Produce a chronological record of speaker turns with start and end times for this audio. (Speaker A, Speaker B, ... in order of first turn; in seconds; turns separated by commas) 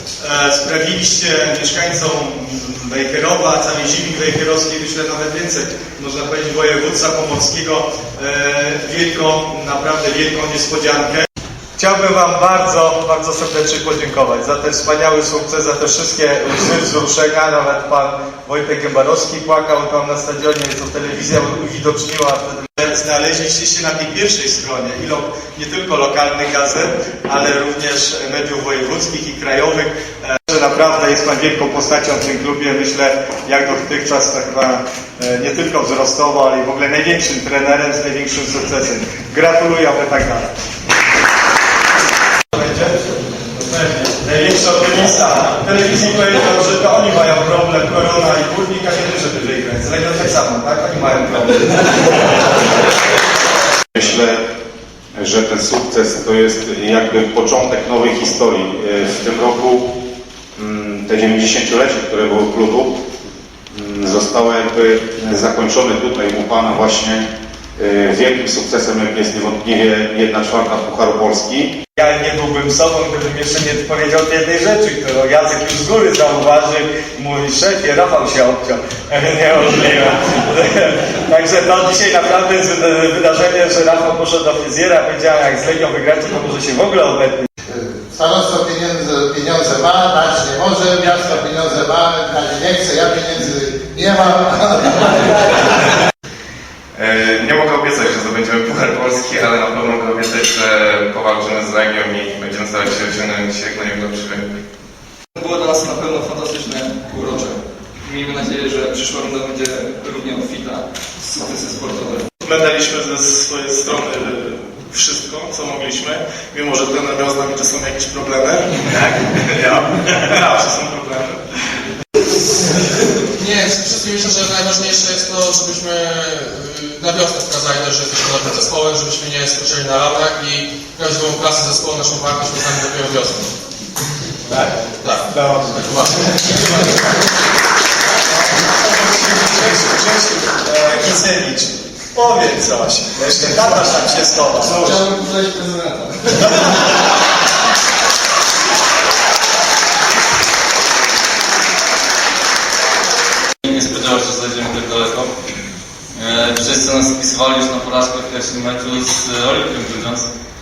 Speaker A: 0.2-11.3, Speaker A: 11.8-40.5, Speaker A: 42.5-52.5, Speaker B: 54.0-54.4, Speaker B: 55.2-59.9, Speaker B: 60.6-63.0, Speaker B: 63.7-71.7, Speaker A: 72.0-87.5, Speaker C: 87.7-95.6, Speaker D: 97.0-104.5, Speaker E: 105.5-107.5, Speaker E: 108.2-110.7, Speaker E: 111.6-112.2, Speaker F: 112.4-121.4, Speaker G: 123.4-133.5, Speaker A: 135.3-136.0, Speaker A: 138.7-145.0, Speaker C: 144.8-146.0, Speaker H: 153.6-155.3, Speaker H: 156.2-160.3